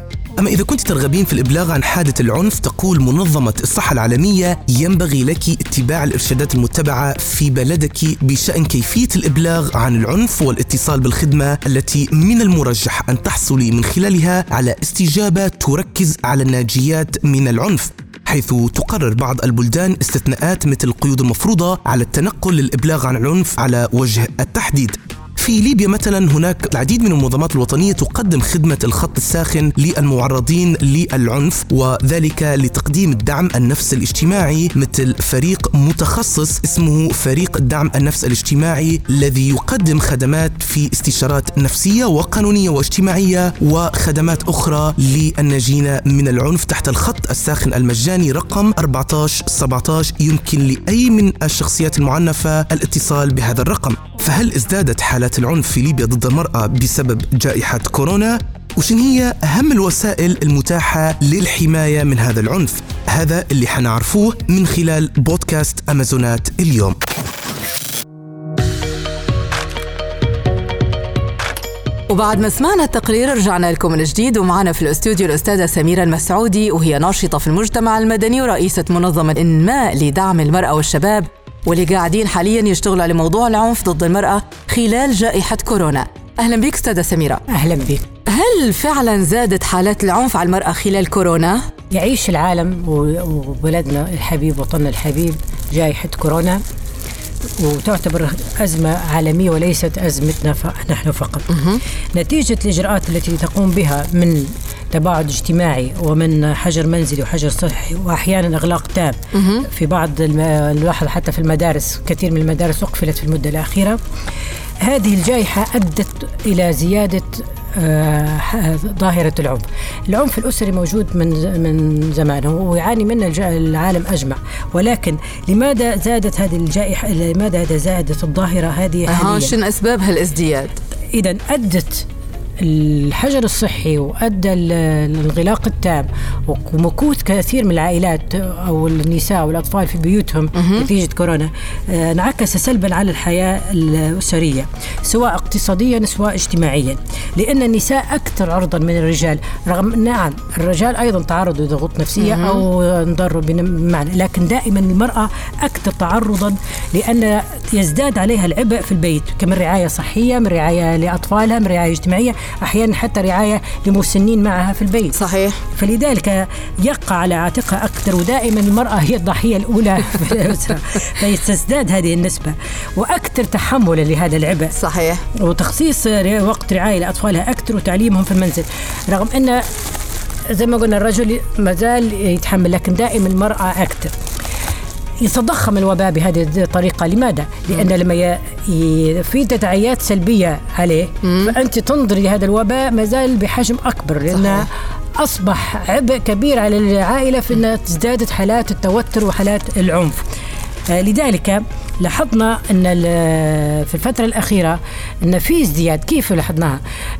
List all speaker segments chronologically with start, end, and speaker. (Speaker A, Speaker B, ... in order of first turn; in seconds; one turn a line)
Speaker A: 0.4-67.0
Speaker B: 72.1-87.4
Speaker C: 87.5-88.1
Speaker B: 88.2-91.7
Speaker C: 91.9-96.6
Speaker C: 97.6-101.6
Speaker B: 101.5-101.8
Speaker C: 102.1-114.0
Speaker B: 109.3-109.7
Speaker C: 114.8-129.5
Speaker B: 129.1-130.8
Speaker C: 131.1-132.1
Speaker C: 132.6-165.2
Speaker B: 140.5-140.9
Speaker B: 152.2-152.6
Speaker B: 165.1-165.6
Speaker C: 165.7-174.7
Speaker B: 174.7-175.2
Speaker C: 175.4-179.6
Speaker C: 180.5-184.1
Speaker C: 185.2-200.2
Speaker B: 191.2-191.5
Speaker B: 194.3-194.7
Speaker C: 200.9-206.8